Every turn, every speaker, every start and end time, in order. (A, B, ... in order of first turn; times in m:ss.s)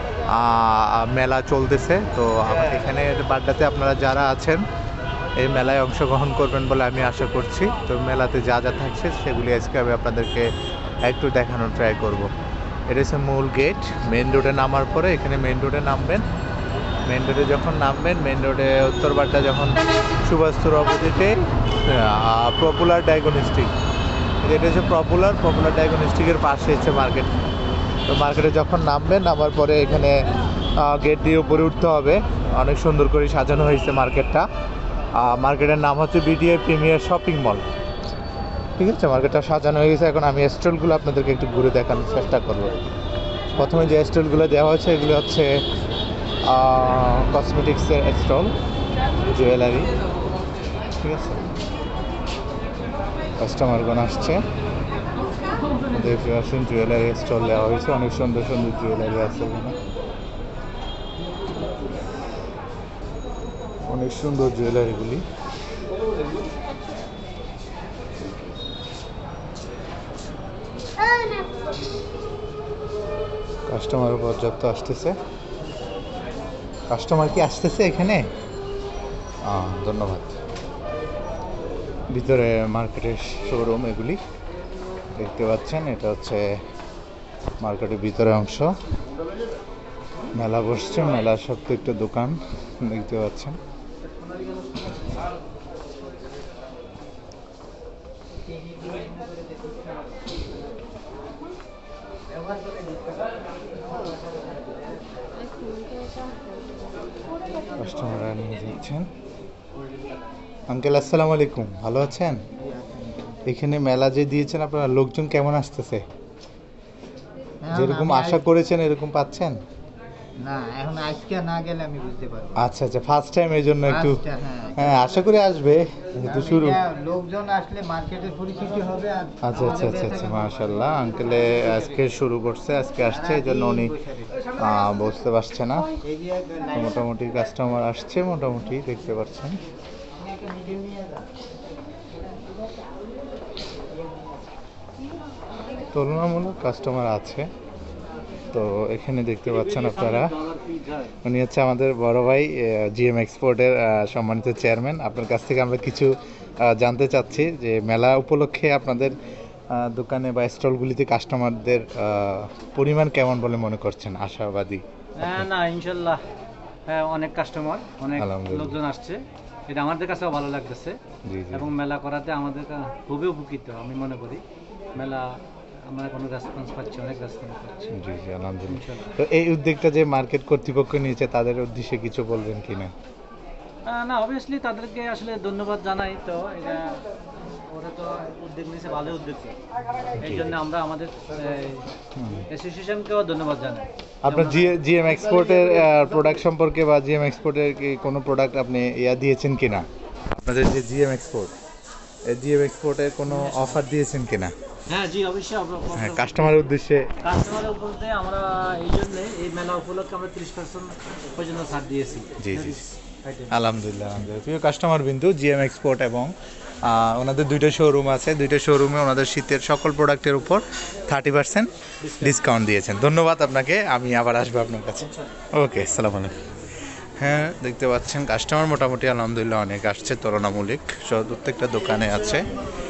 0:00.3-0:04.6 A
0:05.4-0:10.5 A
0:11.0-0:12.3 A
0:12.9-0:16.2 A
0:17.0-0:23.7 A
0:24.4-0:27.3 A
0:28.0-0:30.2 A
0:30.8-0:34.4 A
0:35.1-0:37.6 A
0:38.8-0:42.7 A
0:43.6-0:45.6 A
0:46.4-0:48.5 A
0:49.3-0:49.9 A
0:51.0-0:51.4 A
0:53.4-0:54.4 A
0:55.9-0:59.8 A
1:03.9-1:05.2 A
1:13.7-1:15.2 A
1:16.9-1:18.3 A
1:19.4-1:20.3 A
1:22.1-1:24.2 A
1:25.1-1:26.5 A
1:27.6-1:28.7 A
1:30.3-1:33.6 A
1:42.7-1:42.9 B
1:47.8-1:49.1 A
1:50.7-1:52.4 A
1:52.8-1:53.1 B
1:53.4-1:56.0 A
1:57.6-1:58.4 B
1:57.7-1:59.6 A
2:00.4-2:02.6 B
2:02.6-2:04.2 A
2:03.9-2:05.0 B
2:04.8-2:06.8 A
2:06.2-2:11.8 B
2:09.4-2:13.9 A
2:13.1-2:14.3 B
2:14.6-2:15.9 A
2:16.0-2:16.9 B
2:16.7-2:19.6 A
2:20.2-2:21.3 B
2:25.9-2:27.5 A
2:28.5-2:30.3 A
2:29.6-2:31.1 C
2:31.2-2:39.2 A
2:39.7-2:45.4 A
2:45.2-2:46.2 C
2:46.9-2:51.0 C
2:48.2-2:48.8 A
2:51.2-2:51.7 A
2:51.5-2:54.4 C
2:54.9-2:58.0 C
2:57.9-3:02.9 A
2:58.7-2:59.1 C
3:03.8-3:07.0 C
3:07.7-3:09.6 C
3:10.2-3:10.5 A
3:10.2-3:11.9 C
3:12.2-3:12.5 A
3:12.5-3:14.8 C
3:14.2-3:21.5 A
3:22.2-3:24.5 A
3:23.4-3:23.7 C
3:24.9-3:33.5 C
3:25.9-3:27.1 A
3:32.4-3:32.8 A
3:33.5-3:46.4 A
3:42.0-3:42.4 C
3:47.2-3:52.4 A